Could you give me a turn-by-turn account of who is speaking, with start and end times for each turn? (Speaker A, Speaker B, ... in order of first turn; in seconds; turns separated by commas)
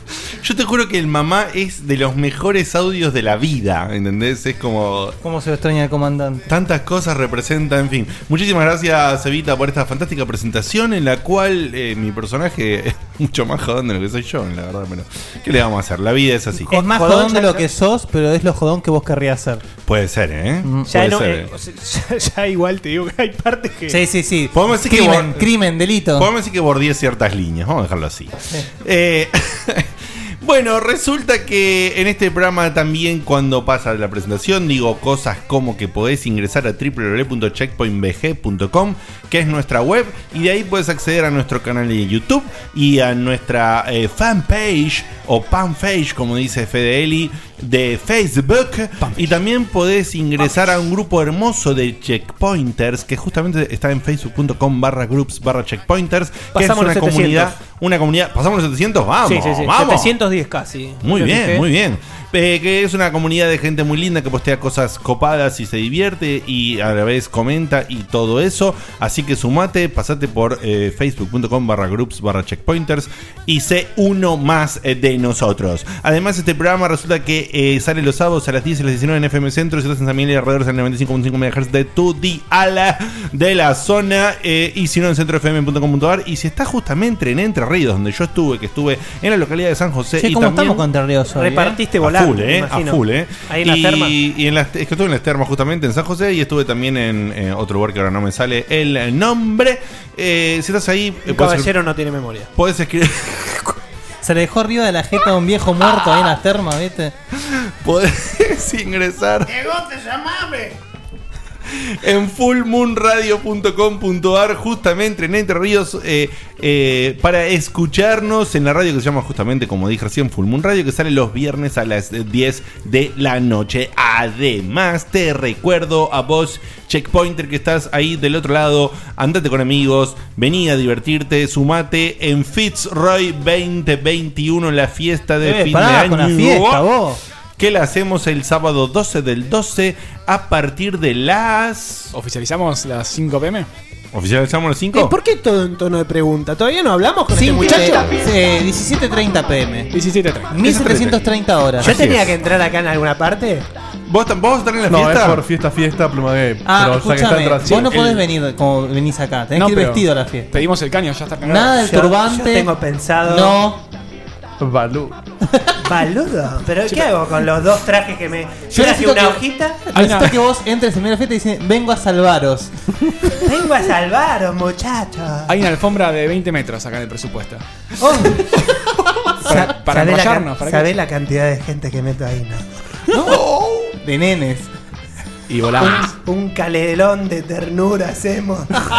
Speaker A: 0.4-5.2, Speaker B: 5.2-6.5, Speaker A: 6.5-16.7, Speaker B: 16.7-19.6, Speaker C: 16.7-17.7, Speaker A: 19.9-21.5, Speaker C: 20.9-24.0, Speaker B: 23.9-26.3, Speaker A: 24.5-25.5, Speaker A: 26.1-60.1, Speaker C: 56.5-57.5, Speaker C: 59.2-61.6, Speaker A: 61.0-90.8, Speaker B: 90.2-91.8, Speaker C: 91.3-94.1, Speaker A: 92.0-101.7, Speaker C: 101.2-102.5, Speaker A: 102.5-103.8, Speaker B: 104.2-107.1, Speaker A: 107.4-109.5, Speaker A: 111.7-136.8, Speaker B: 135.4-137.2, Speaker A: 137.6-142.1, Speaker D: 142.1-143.7, Speaker A: 144.1-145.1, Speaker C: 144.9-148.2, Speaker B: 147.3-149.9, Speaker D: 149.9-151.1, Speaker B: 150.5-152.1, Speaker A: 151.8-152.3, Speaker C: 151.8-153.7, Speaker A: 154.1-155.4, Speaker E: 154.9-158.2, Speaker B: 156.6-160.6, Speaker D: 157.6-158.2, Speaker D: 159.5-161.8, Speaker B: 161.4-162.7, Speaker C: 161.8-163.6, Speaker B: 163.2-163.8, Speaker E: 164.6-165.2, Speaker C: 165.8-169.9, Speaker B: 168.7-172.7, Speaker D: 169.9-170.4, Speaker C: 173.4-175.6, Speaker D: 175.5-177.6, Speaker C: 178.0-178.4, Speaker D: 179.4-180.9, Speaker C: 179.5-182.6, Speaker B: 183.1-183.4, Speaker A: 183.2-183.9, Speaker B: 184.0-184.7, Speaker D: 185.5-186.1, Speaker C: 185.8-188.8